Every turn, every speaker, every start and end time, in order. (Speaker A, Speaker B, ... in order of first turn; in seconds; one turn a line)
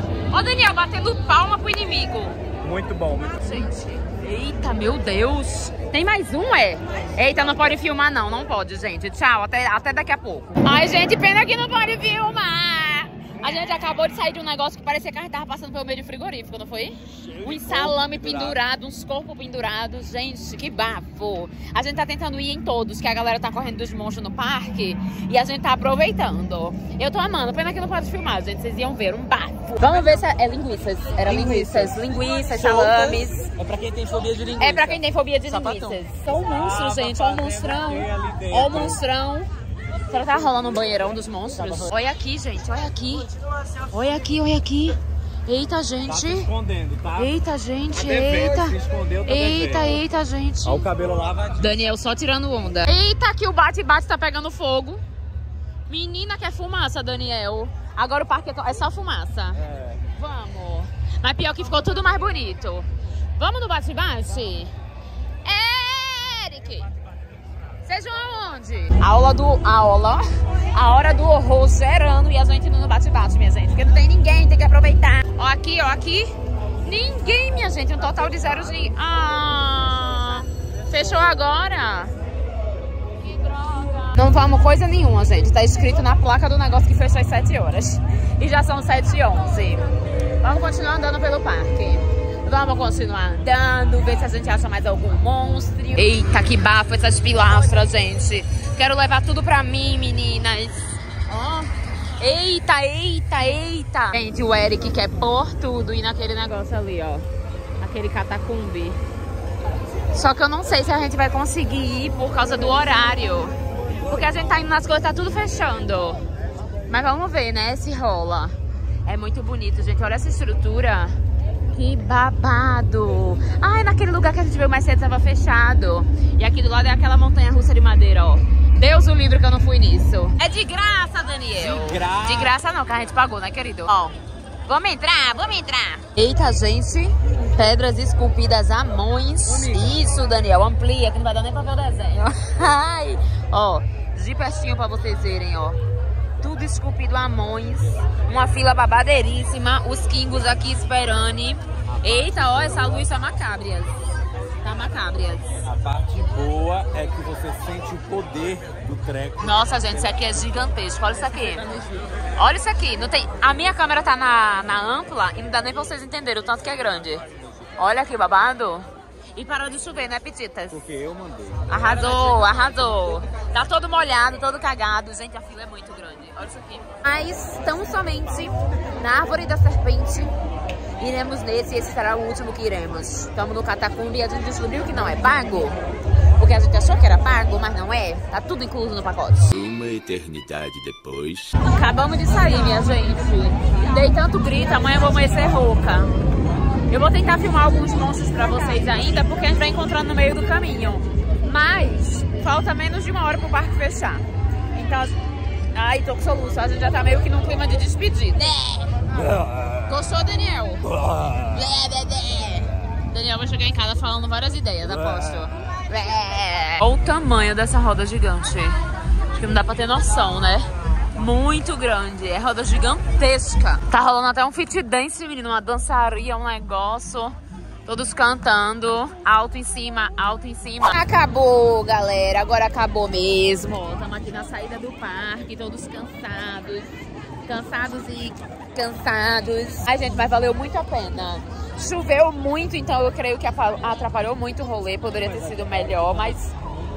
Speaker A: 0.3-2.4
Speaker B: 2.6-3.4
Speaker A: 3.4-33.5
Speaker B: 17.2-18.6
Speaker B: 31.3-31.9
Speaker B: 32.5-39.0
Speaker A: 34.6-39.5
Speaker A: 40.1-43.3
Speaker A: 43.9-46.5
Speaker B: 46.0-47.3
Speaker A: 47.2-50.9
Speaker B: 47.9-50.0
Speaker B: 50.6-51.8
Speaker A: 51.6-55.0
Speaker A: 55.9-59.6
Speaker B: 59.5-60.0
Speaker A: 60.1-64.7
Speaker A: 65.4-66.9
Speaker A: 67.8-82.1
Speaker A: 83.3-89.9
Speaker A: 90.4-107.2
Speaker A: 107.8-109.0
Speaker A: 110.1-116.2
Speaker A: 116.9-121.2
Speaker A: 121.7-145.8
Speaker B: 131.6-132.5
Speaker B: 139.5-140.0
Speaker A: 146.4-154.1
Speaker B: 152.0-153.0
Speaker A: 154.6-155.6
Speaker B: 155.6-160.7
Speaker A: 159.4-161.7
Speaker B: 161.7-162.0
Speaker A: 162.3-167.2
Speaker A: 167.8-170.8
Speaker B: 170.7-172.5
Speaker A: 171.7-180.3
Speaker A: 181.0-185.8
Speaker A: 186.4-189.5
Speaker C: 189.5-191.5
Speaker A: 191.6-196.1
Speaker A: 196.9-205.2
Speaker A: 205.7-209.0
Speaker B: 209.2-209.8
Speaker A: 209.9-210.9
Speaker B: 210.9-211.4
Speaker A: 211.5-218.8
Speaker B: 215.0-215.3
Speaker A: 219.3-236.9
Speaker A: 237.4-246.5